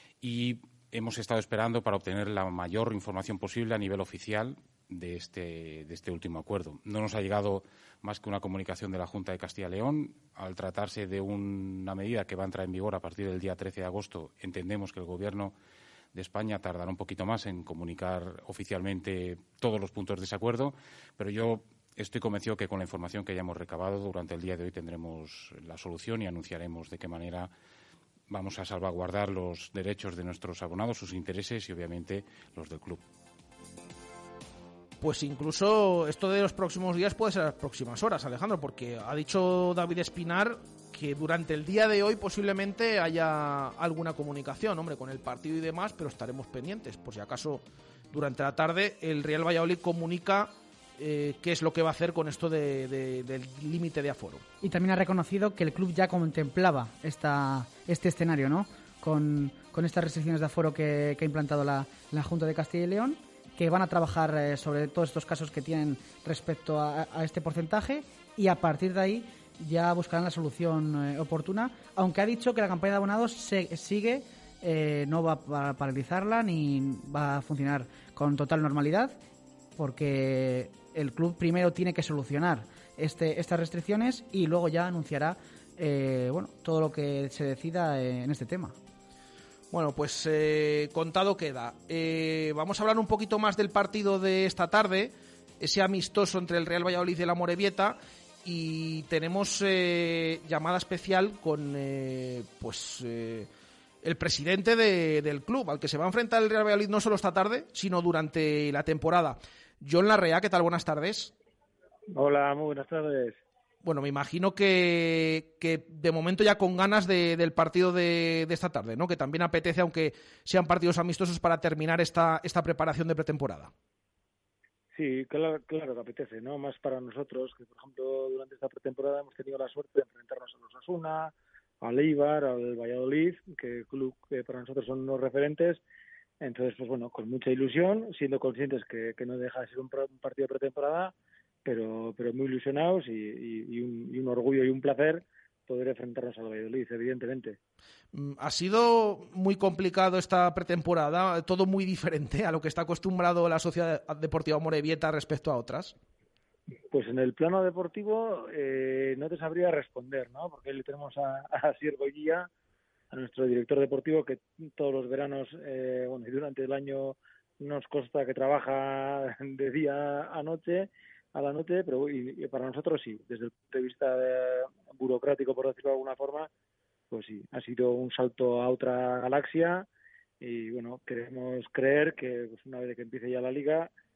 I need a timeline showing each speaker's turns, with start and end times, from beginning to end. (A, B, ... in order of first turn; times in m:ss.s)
0:00.2-0:15.6 A
0:16.1-0:27.5 A
0:28.3-0:33.0 A
0:35.0-0:54.4 B
0:54.6-1:19.2 C
1:19.8-1:28.8 C
1:29.7-1:43.5 B
1:44.0-1:51.3 B
1:52.2-1:53.4 D
1:53.8-2:03.7 B
2:05.0-2:15.8 D
2:16.4-2:21.1 D
2:21.6-2:27.6 D
2:28.1-2:35.9 B
2:36.9-2:42.5 D
2:43.1-2:56.5 D
2:57.1-2:59.9 D
3:00.4-3:03.9 D